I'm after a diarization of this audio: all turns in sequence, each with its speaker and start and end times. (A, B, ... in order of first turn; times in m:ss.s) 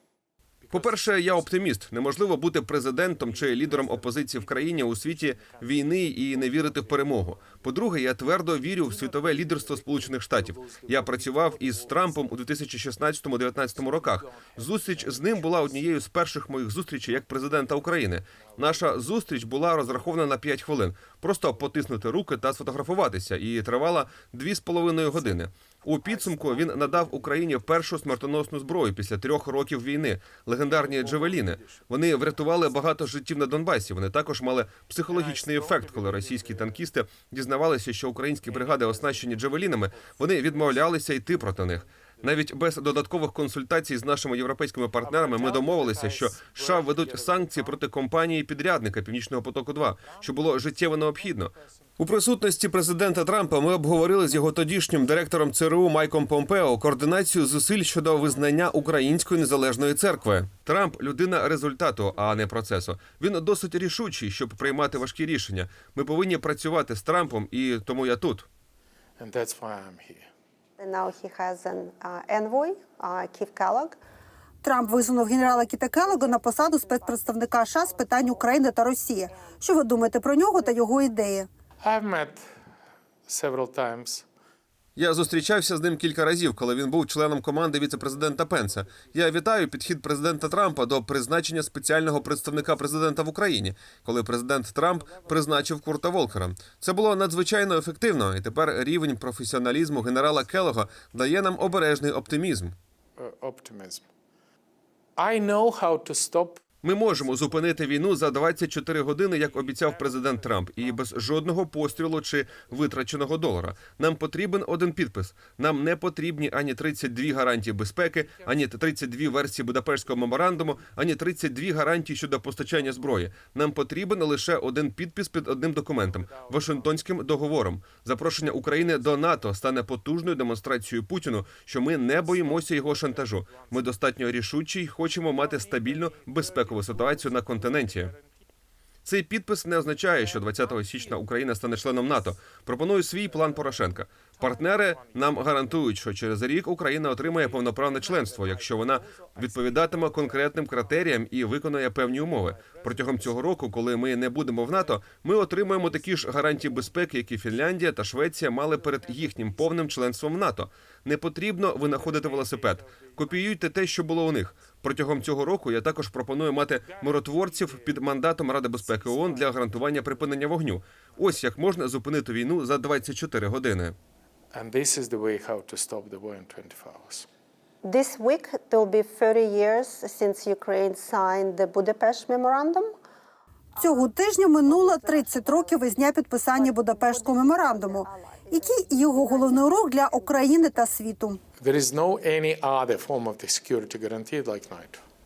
0:00.6-0:01.6 A
0:00.7-1:08.5 B
0:03.1-0:07.7 A
0:08.8-0:12.6 A
0:13.6-0:16.0 A
0:17.1-0:19.1 A
0:25.2-0:28.4 A
0:30.6-0:33.2 A
0:35.1-0:36.9 A
0:38.5-0:42.4 A
0:45.0-0:47.8 A
0:50.0-0:51.7 A
0:58.3-0:58.9 A
1:04.6-1:05.0 A
1:09.2-1:10.3 A
1:10.8-1:14.0 C
1:14.6-1:21.5 D
1:16.9-1:17.2 C
1:21.8-1:22.4 A
1:23.3-1:24.3 A
1:25.0-1:42.8 B
1:43.2-1:44.0 A
1:45.2-1:46.6 A
1:46.8-2:18.1 B
1:47.2-1:47.7 A
1:49.4-1:53.1 A
1:58.3-1:58.7 A
2:00.1-2:00.8 A
2:06.0-2:07.0 A
2:08.4-2:09.5 A
2:12.1-2:14.0 A
2:15.4-2:18.2 A
2:19.0-2:54.0 B
2:20.0-2:22.4 A
2:23.2-2:25.7 A
2:27.2-2:31.2 A
2:32.1-2:37.2 A
2:38.7-2:40.0 A
2:41.8-2:43.6 A
2:46.8-2:51.7 A
2:54.5-2:57.3 A
2:57.8-3:02.9 C
3:03.8-3:04.1 C
3:03.8-3:11.4 D
3:04.6-3:05.8 C
3:06.5-3:10.6 C
3:11.6-3:15.0 A